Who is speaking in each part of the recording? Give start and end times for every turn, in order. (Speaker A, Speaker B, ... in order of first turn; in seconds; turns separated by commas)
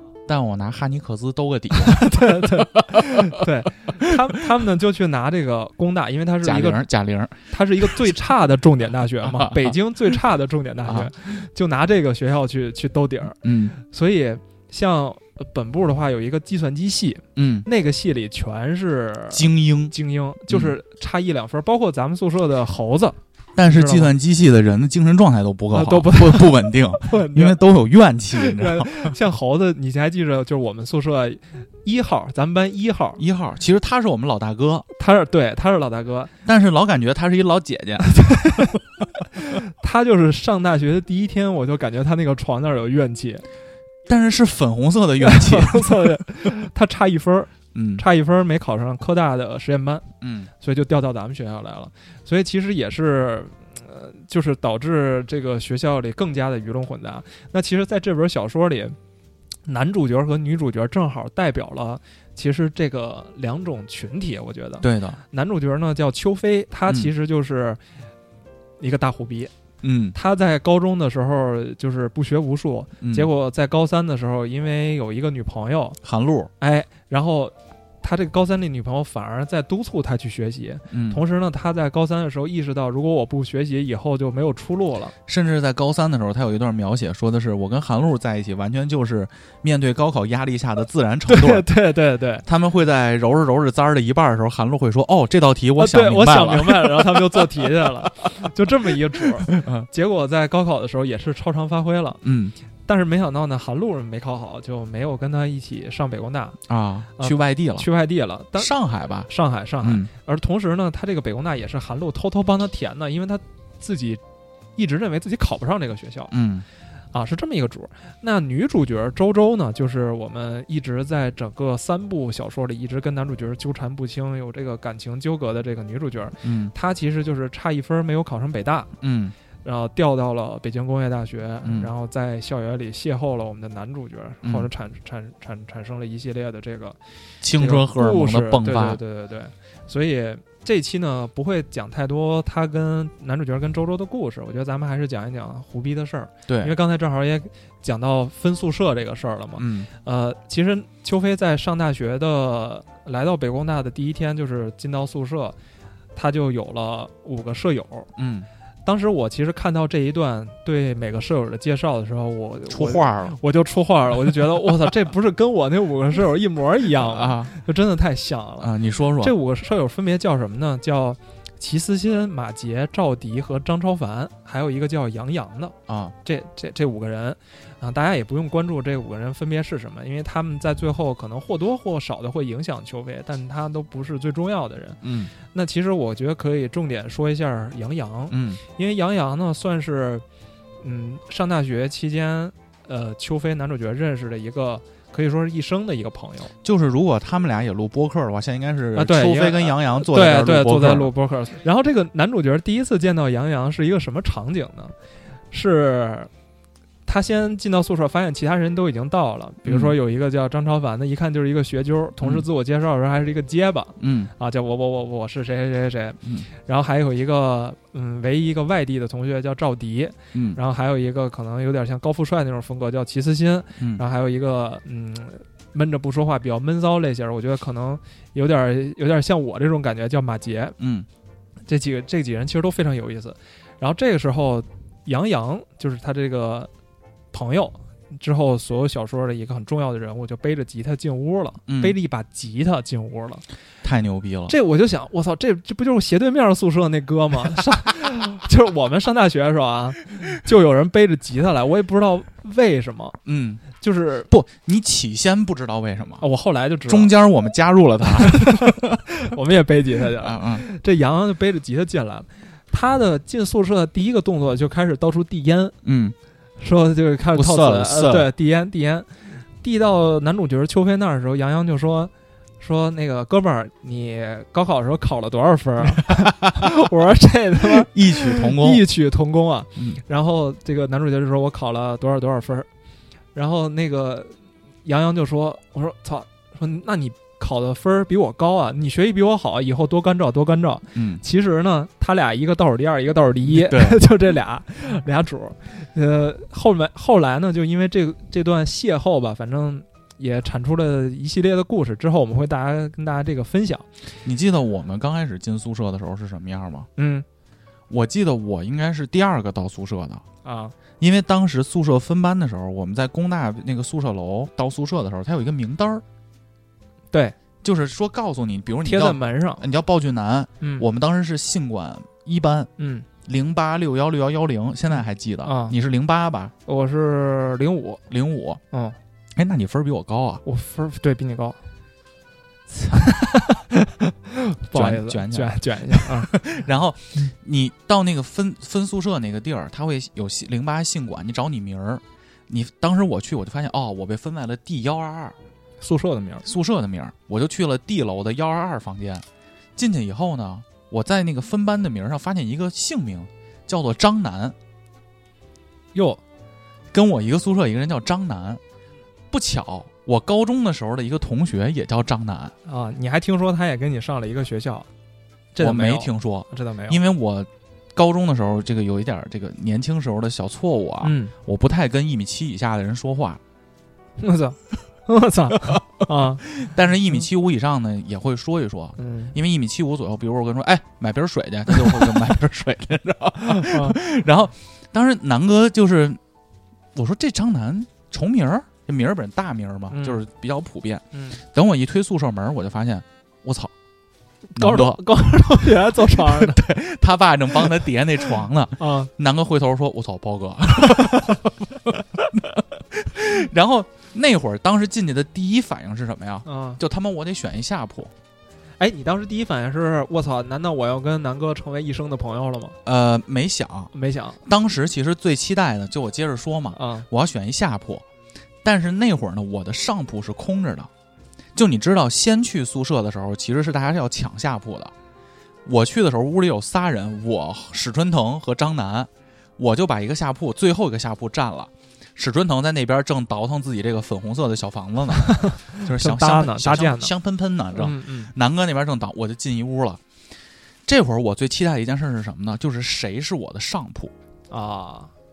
Speaker A: 0.2-3.4, Speaker B: 1.7-6.8, Speaker A: 6.4-8.1, Speaker B: 7.5-24.1, Speaker A: 9.2-9.8, Speaker A: 10.8-11.1, Speaker A: 13.4-13.8, Speaker A: 17.4-17.7, Speaker A: 19.3-19.9, Speaker A: 20.5-20.7, Speaker A: 23.6-29.1, Speaker B: 25.7-27.6, Speaker B: 28.3-33.2, Speaker A: 33.2-34.9, Speaker B: 35.0-36.3, Speaker A: 36.5-38.5, Speaker B: 38.0-38.8, Speaker B: 39.3-43.4, Speaker A: 44.0-46.2, Speaker B: 45.2-50.0, Speaker A: 47.7-48.0, Speaker A: 50.2-50.5, Speaker B: 50.6-59.0, Speaker B: 59.6-67.8, Speaker A: 64.8-65.2, Speaker B: 68.8-69.5, Speaker A: 69.8-70.2, Speaker B: 70.1-76.0, Speaker A: 73.0-73.3, Speaker A: 76.0-76.5, Speaker B: 76.6-85.1, Speaker A: 80.9-81.2, Speaker A: 85.3-91.7, Speaker B: 91.3-92.4, Speaker A: 92.5-97.9, Speaker B: 95.8-102.2, Speaker A: 99.2-99.9, Speaker A: 102.2-102.5, Speaker B: 102.9-106.6, Speaker A: 106.7-107.9, Speaker B: 107.2-108.7, Speaker A: 108.6-109.3, Speaker B: 109.3-114.2, Speaker A: 109.8-110.1, Speaker B: 114.8-116.3, Speaker A: 116.3-116.6, Speaker B: 117.1-128.9, Speaker A: 126.4-126.7, Speaker A: 129.0-129.3, Speaker B: 129.6-137.0, Speaker A: 131.6-131.9, Speaker A: 134.4-134.7, Speaker A: 137.4-139.0, Speaker B: 137.6-155.6, Speaker A: 146.5-146.7, Speaker A: 149.6-149.9, Speaker B: 156.1-158.1, Speaker A: 158.2-158.5, Speaker B: 158.8-190.2, Speaker A: 162.7-163.4, Speaker A: 167.0-167.5, Speaker A: 168.6-169.3, Speaker A: 175.9-176.1, Speaker A: 185.0-185.3, Speaker A: 188.3-188.6, Speaker B: 190.8-196.5, Speaker A: 196.6-201.1, Speaker B: 198.9-204.9, Speaker B: 205.5-206.3, Speaker B: 207.1-230.8, Speaker A: 209.6-209.9, Speaker A: 214.0-214.3, Speaker A: 220.3-220.6, Speaker A: 223.8-224.0, Speaker A: 230.8-231.1, Speaker B: 231.7-236.7, Speaker B: 237.3-243.4, Speaker A: 241.7-241.9, Speaker A: 243.8-244.6, Speaker B: 244.5-253.2, Speaker A: 253.2-253.7, Speaker B: 253.8-254.3, Speaker A: 254.3-256.2, Speaker B: 256.2-257.1, Speaker A: 256.9-259.0, Speaker B: 258.2-265.7, Speaker A: 260.2-260.6, Speaker A: 265.8-266.1, Speaker B: 266.6-282.7, Speaker A: 267.3-268.3, Speaker A: 277.6-278.8, Speaker B: 283.3-303.9, Speaker A: 290.9-291.2, Speaker A: 293.5-294.0, Speaker A: 304.2-306.9, Speaker B: 307.0-307.2, Speaker A: 307.9-310.2, Speaker B: 310.4-310.7, Speaker A: 311.0-316.0, Speaker A: 317.6-322.7, Speaker B: 318.8-319.6, Speaker B: 320.6-320.9, Speaker B: 322.8-323.1, Speaker A: 323.2-326.5, Speaker B: 325.4-325.8, Speaker B: 326.6-328.0, Speaker A: 328.1-328.6, Speaker B: 328.7-328.9, Speaker A: 329.4-330.4, Speaker B: 330.4-331.6, Speaker B: 332.7-336.3, Speaker A: 334.7-345.4, Speaker B: 345.8-346.5, Speaker A: 346.4-349.2, Speaker A: 349.8-354.5, Speaker B: 355.9-356.2, Speaker A: 356.9-358.6, Speaker A: 359.3-362.5, Speaker B: 362.6-364.9, Speaker B: 365.5-367.0, Speaker A: 365.6-373.4, Speaker B: 371.0-371.3, Speaker B: 374.2-376.4, Speaker A: 376.4-386.2, Speaker B: 379.0-379.3, Speaker B: 383.4-384.0, Speaker A: 386.9-393.7, Speaker B: 389.9-390.2, Speaker B: 391.1-391.4, Speaker B: 394.5-396.6, Speaker A: 394.6-408.1, Speaker B: 398.8-399.1, Speaker B: 406.4-406.8, Speaker B: 408.8-412.8, Speaker A: 412.8-413.9, Speaker B: 413.9-414.4, Speaker A: 414.4-418.0, Speaker B: 416.7-417.1, Speaker A: 418.6-420.9, Speaker A: 421.6-424.9, Speaker A: 425.6-440.0, Speaker B: 435.2-437.1, Speaker B: 437.7-438.3, Speaker A: 440.9-444.1, Speaker B: 444.5-445.1